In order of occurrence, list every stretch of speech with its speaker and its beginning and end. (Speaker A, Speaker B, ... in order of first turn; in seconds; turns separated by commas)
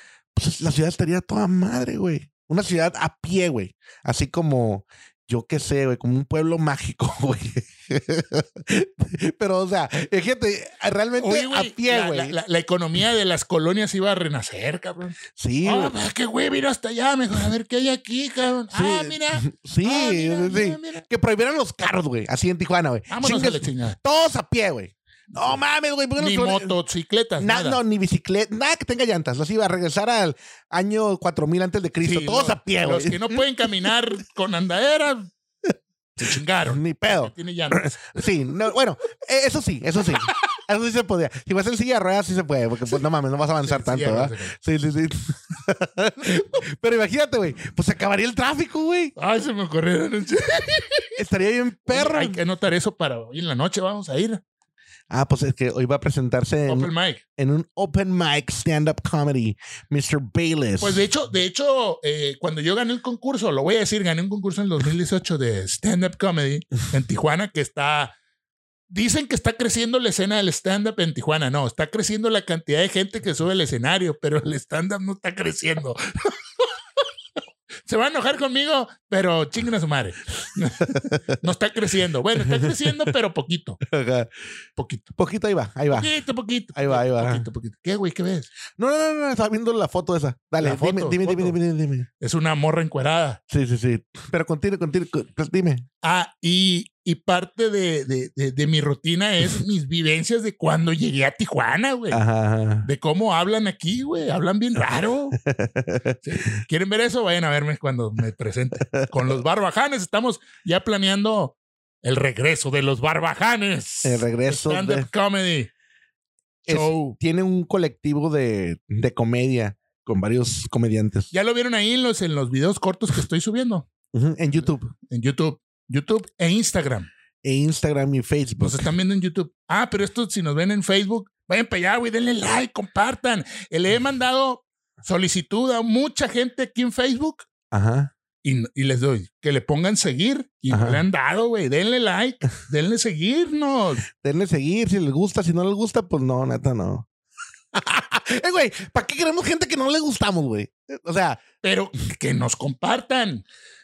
Speaker A: 0.3-12.4, Speaker B: 11.2-21.1, Speaker A: 15.3-15.9, Speaker A: 18.7-26.7, Speaker B: 23.1-24.0, Speaker B: 25.3-25.6, Speaker B: 26.2-27.8, Speaker A: 27.4-33.4, Speaker B: 32.0-35.3, Speaker B: 36.2-38.2, Speaker A: 36.7-49.1, Speaker B: 43.6-44.5, Speaker B: 49.1-51.2, Speaker A: 51.2-52.4, Speaker B: 51.9-54.4, Speaker A: 55.1-61.0, Speaker B: 56.7-57.2, Speaker B: 60.8-68.1, Speaker B: 68.9-77.0, Speaker B: 77.8-83.8, Speaker A: 80.9-81.4, Speaker A: 83.8-84.3, Speaker B: 84.8-85.1, Speaker A: 85.2-86.1, Speaker B: 85.9-88.5, Speaker A: 86.7-87.5, Speaker A: 88.8-92.1, Speaker B: 90.6-91.6, Speaker B: 92.2-93.4, Speaker A: 93.5-95.8, Speaker B: 96.0-102.2, Speaker A: 102.1-102.9, Speaker B: 102.8-105.4, Speaker A: 105.4-106.6, Speaker B: 106.2-115.7, Speaker A: 108.8-109.1, Speaker A: 114.0-115.1, Speaker A: 116.7-121.3, Speaker B: 116.7-117.2, Speaker B: 121.3-123.9, Speaker A: 124.1-124.9, Speaker B: 125.1-127.1, Speaker A: 127.4-128.8, Speaker B: 128.6-137.5, Speaker A: 137.7-138.1, Speaker B: 138.4-144.0, Speaker A: 140.7-141.0, Speaker A: 144.1-147.1, Speaker A: 147.7-151.4, Speaker B: 151.6-153.4